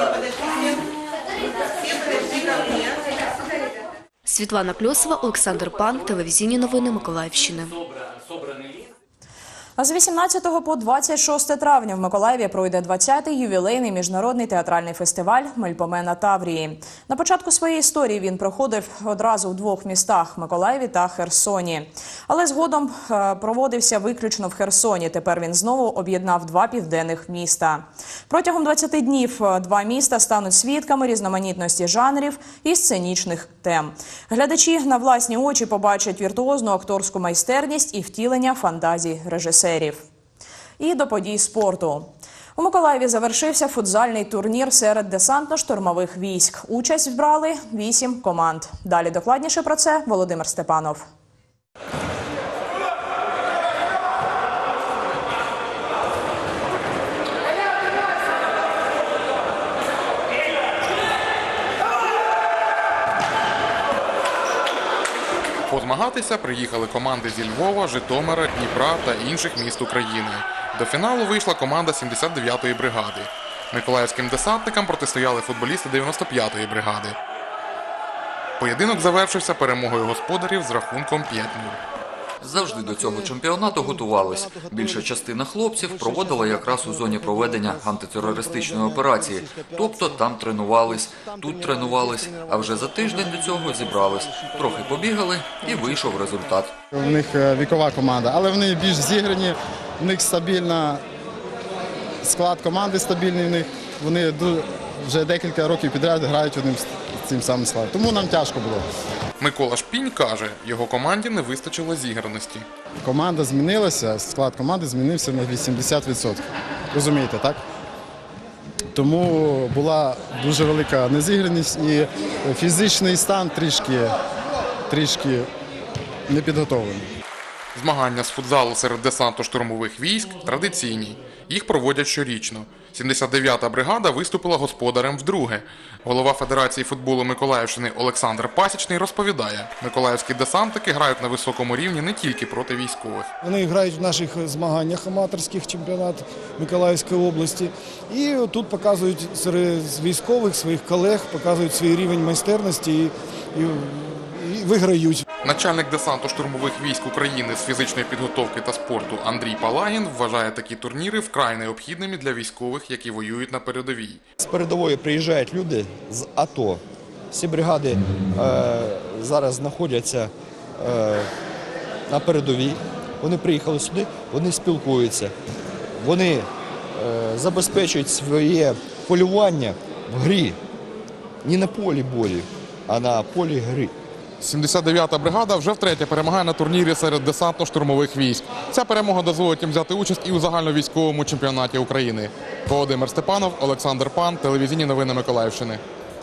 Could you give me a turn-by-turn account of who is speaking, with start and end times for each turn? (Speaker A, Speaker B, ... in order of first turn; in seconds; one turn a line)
Speaker A: 4.4-6.4
Speaker A: 7.1-7.4
Speaker B: 9.8-40.0
Speaker B: 40.8-51.0
Speaker C: 65.7-77.2
Speaker C: 78.6-81.8
Speaker D: 82.4-96.7
Speaker E: 96.9-101.0
Speaker E: 102.2-108.8
Speaker C: 109.4-112.7
Speaker E: 113.0-117.6
Speaker E: 119.0-124.1
Speaker E: 124.9-125.5
Speaker E: 126.3-127.1
Speaker C: 127.8-143.3
Speaker F: 143.4-155.2
Speaker C: 155.4-164.2
Speaker G: 164.4-171.3
Speaker G: 172.1-175.3
Speaker G: 176.0-180.6
Speaker G: 181.4-183.9
Speaker C: 184.4-195.8